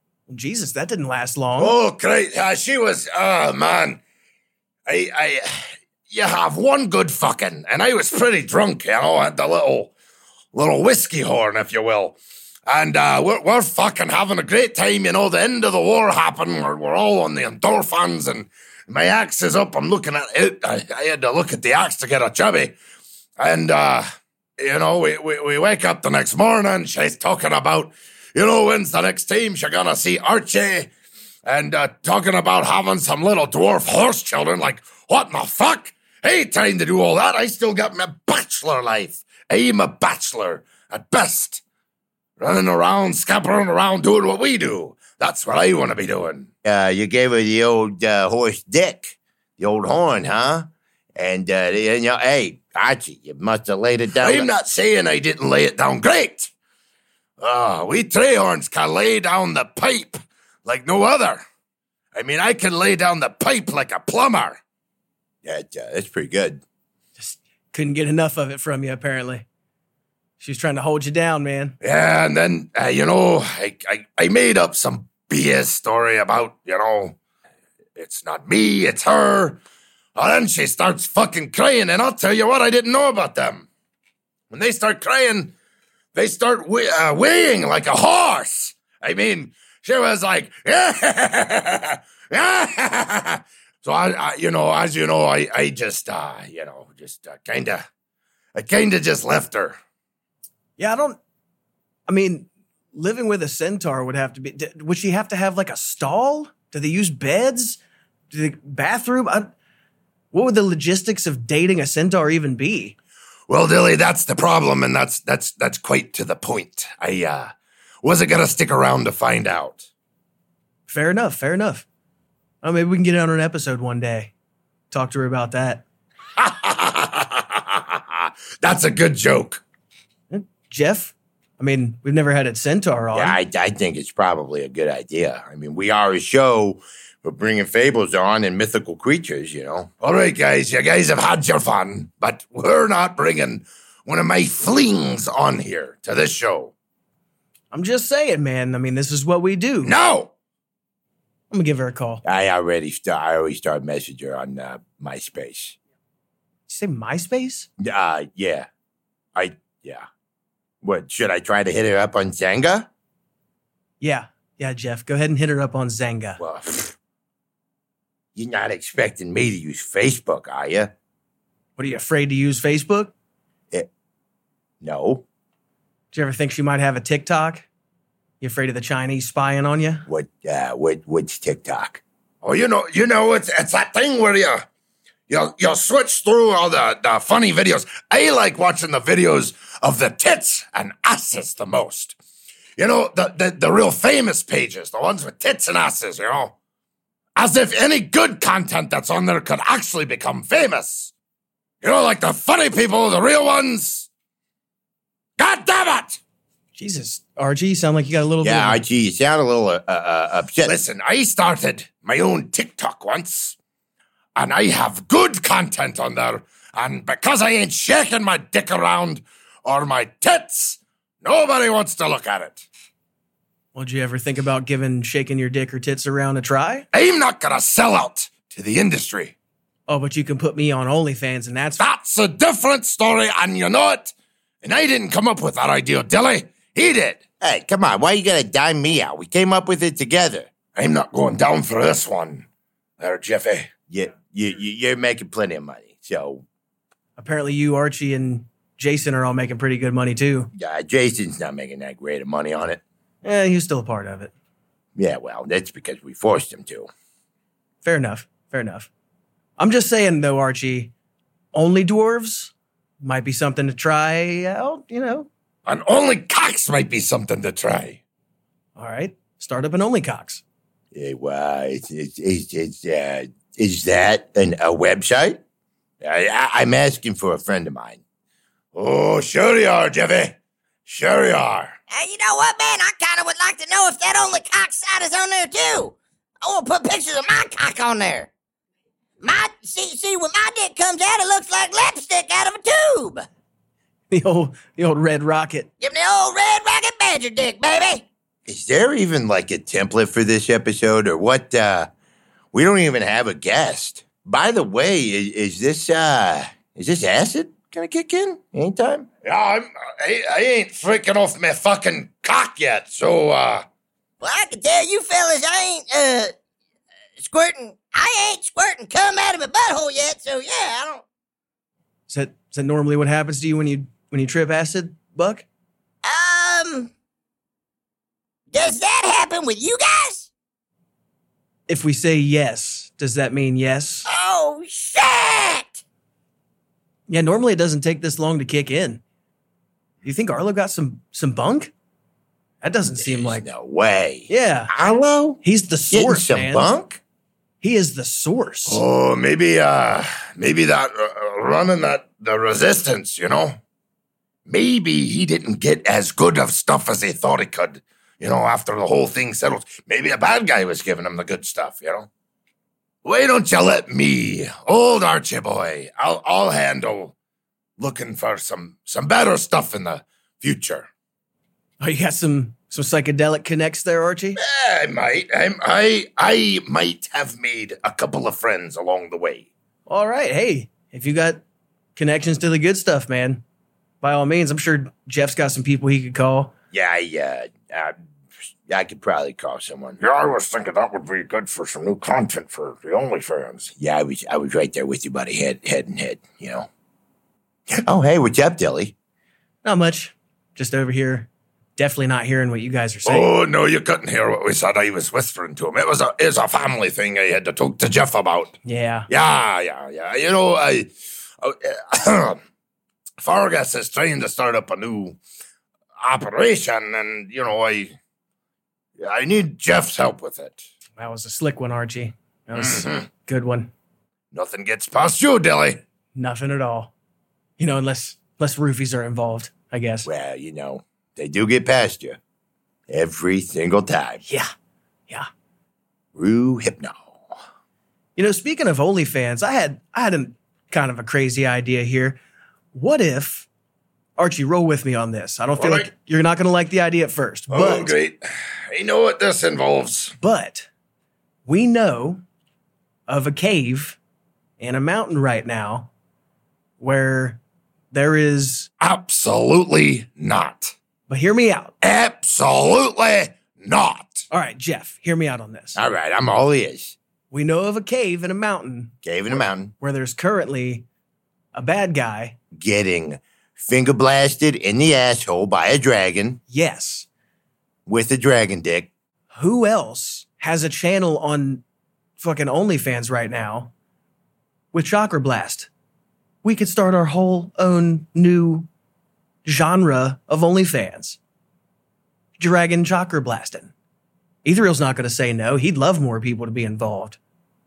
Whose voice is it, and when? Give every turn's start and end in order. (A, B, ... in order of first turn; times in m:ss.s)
0:00.3-0:01.8 A
0:01.6-0:04.0 B
0:04.9-0:09.9 B
0:10.5-0:22.8 B
0:23.4-0:24.0 B
0:24.6-0:30.9 B
0:31.5-0:41.6 B
0:42.4-0:46.5 B
0:46.6-0:54.5 C
0:54.2-0:56.5 B
0:57.4-1:01.4 B
1:02.1-1:04.6 B
1:05.4-1:06.6 C
1:07.2-1:09.4 A
1:10.4-1:11.8 A
1:11.8-1:17.2 B
1:18.0-1:19.6 B
1:20.2-1:23.7 B
1:24.5-1:25.5 B
1:26.1-1:37.9 B
1:38.6-1:39.8 B
1:40.8-1:41.2 A
1:42.1-1:47.8 A
1:48.3-1:49.5 A
1:50.3-1:53.0 A
1:53.5-1:59.9 B
2:00.9-2:01.9 A
2:02.6-2:04.3 A
2:04.9-2:05.8 A
2:06.4-2:09.6 B
2:10.3-2:13.4 A
2:13.1-2:19.9 C
2:20.0-2:26.7 B
2:27.7-2:29.9 A
2:29.8-2:30.3 B
2:31.5-2:32.2 A
2:32.2-2:35.8 C
2:36.7-2:37.7 A
2:37.8-2:38.7 C
2:39.4-2:40.1 C
2:40.8-2:42.9 C
2:44.0-2:46.4 A
2:46.4-2:46.9 C
2:48.4-2:50.9 C
2:51.8-2:53.1 A
2:54.8-2:55.2 C
2:56.1-2:57.7 A
2:58.4-3:00.1 A
3:00.1-3:02.0 C
3:02.4-3:04.6 B
3:05.3-3:12.2 B
3:12.8-3:16.6 B
3:17.4-3:21.1 B
3:21.8-3:24.1 B
3:25.4-3:26.2 B
3:26.8-3:28.8 A
3:28.4-3:30.8 C
3:30.6-3:33.6 B
3:34.4-3:42.7 B
3:43.7-3:46.9 A
3:46.9-3:49.3 B
3:49.9-3:51.8 A
3:51.8-3:57.2 B
3:57.4-4:00.5 C
4:00.8-4:02.5 B
4:03.0-4:03.7 B
4:03.9-4:06.4 C
4:07.2-4:10.5 A
4:10.5-4:12.8 C
4:13.2-4:14.3 A
4:15.0-4:16.9 C
4:17.8-4:18.9 A
4:19.6-4:20.9 A
4:21.5-4:25.3 A
4:25.7-4:28.0 B
4:28.8-4:30.4 A
4:30.9-4:35.4 C
4:36.0-4:38.0 C
4:38.7-4:41.8 B
4:41.9-4:48.3 D
4:49.2-4:53.3 D
4:54.1-4:55.7 A
4:55.8-4:58.0 D
4:58.5-5:01.9 C
5:02.5-5:09.1 C
5:09.2-5:13.6 B
5:14.2-5:16.3 D
5:17.2-5:21.0 D
5:22.1-5:25.4 A
5:26.0-5:26.9 D
5:28.5-5:30.3 D
5:31.7-5:34.1 A
5:34.1-5:35.8 D
5:37.1-5:39.0 A
5:40.0-5:41.7 A
5:42.6-5:43.4 A
5:42.9-5:47.0 C
5:44.3-5:44.7 A
5:45.4-5:46.7 A
5:47.6-5:48.8 A
5:48.7-5:53.6 B
5:54.5-6:02.1 B
6:03.0-6:07.1 B
6:07.8-6:10.9 B
6:11.8-6:14.4 A
6:14.4-6:19.5 B
6:19.9-6:21.4 A
6:22.0-6:23.4 A
6:24.0-6:26.5 A
6:26.7-6:28.0 C
6:28.7-6:30.0 C
6:30.0-6:33.7 B
6:33.8-6:36.7 C
6:37.7-6:38.9 C
6:39.6-6:43.3 A
6:43.0-6:48.6 B
6:48.6-6:49.1 A
6:49.1-6:50.9 B
6:51.4-6:52.4 B
6:53.2-6:55.2 B
6:56.0-6:58.0 B
6:59.0-7:00.6 B
7:01.0-7:03.7 A
7:02.6-7:03.0 B
7:04.3-7:05.8 B
7:06.2-7:06.9 A
7:07.6-7:10.1 A
7:10.0-7:12.2 C
7:12.9-7:14.2 C
7:16.2-7:17.2 C
7:18.2-7:22.2 A
7:22.7-7:23.5 A
7:24.2-7:27.9 A
7:25.6-7:25.9 B
7:27.5-7:30.2 B
7:30.2-7:30.7 A
7:31.5-7:32.2 A
7:33.1-7:34.0 A
7:34.6-7:35.9 A
7:36.8-7:37.4 A
7:37.9-7:38.7 A
7:38.8-7:40.8 B
7:41.1-7:41.7 A
7:41.8-7:44.3 B
7:44.3-7:45.8 A
7:45.8-7:47.0 C
7:47.3-7:48.9 A
7:49.0-7:49.7 C
7:49.8-7:50.8 A
7:51.5-7:52.4 A
7:52.6-7:56.4 C
7:56.5-7:57.1 A
7:57.9-7:58.9 C
7:59.3-8:01.6 A
8:02.2-8:03.7 A
8:04.7-8:05.7 A
8:06.4-8:08.7 A
8:09.4-8:11.2 A
8:12.4-8:13.7 A
8:14.4-8:17.2 A